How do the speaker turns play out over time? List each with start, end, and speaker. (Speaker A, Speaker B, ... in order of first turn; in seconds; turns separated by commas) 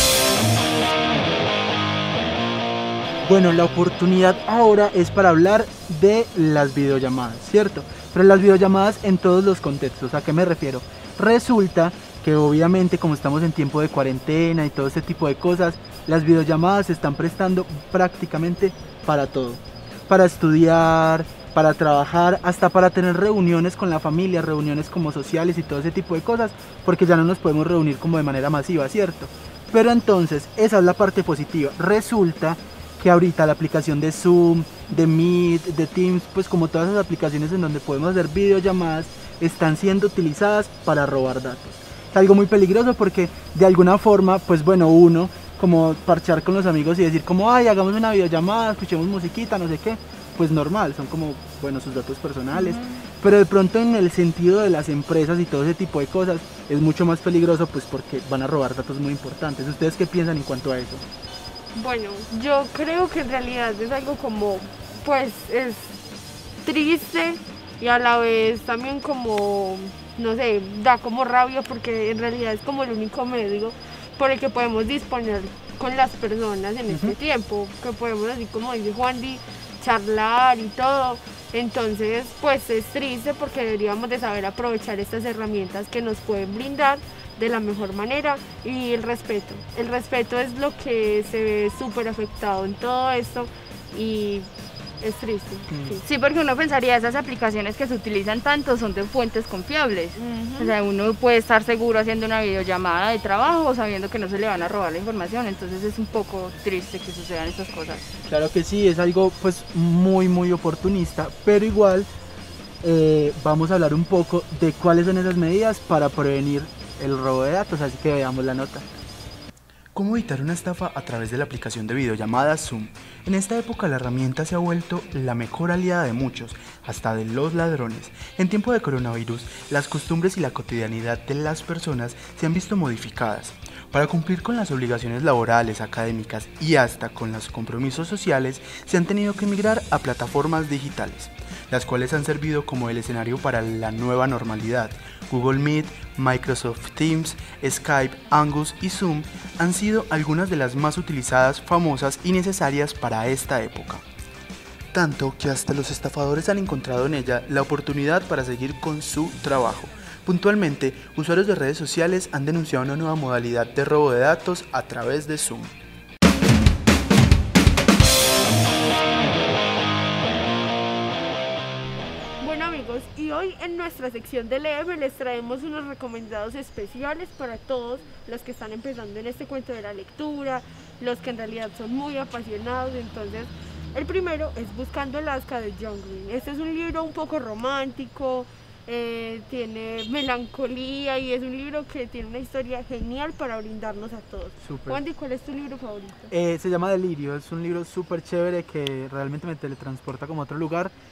Speaker A: 3.2-61.0, Speaker B: 52.5-53.0, Speaker B: 61.8-66.0, Speaker B: 66.6-94.5, Speaker A: 76.9-77.2, Speaker B: 95.0-96.0, Speaker A: 95.7-96.0, Speaker C: 96.0-108.1, Speaker B: 100.2-100.7, Speaker A: 108.3-112.1, Speaker A: 112.8-118.9, Speaker D: 119.9-154.0, Speaker D: 154.9-165.7, Speaker B: 172.4-196.3, Speaker A: 194.6-195.0, Speaker A: 196.3-200.9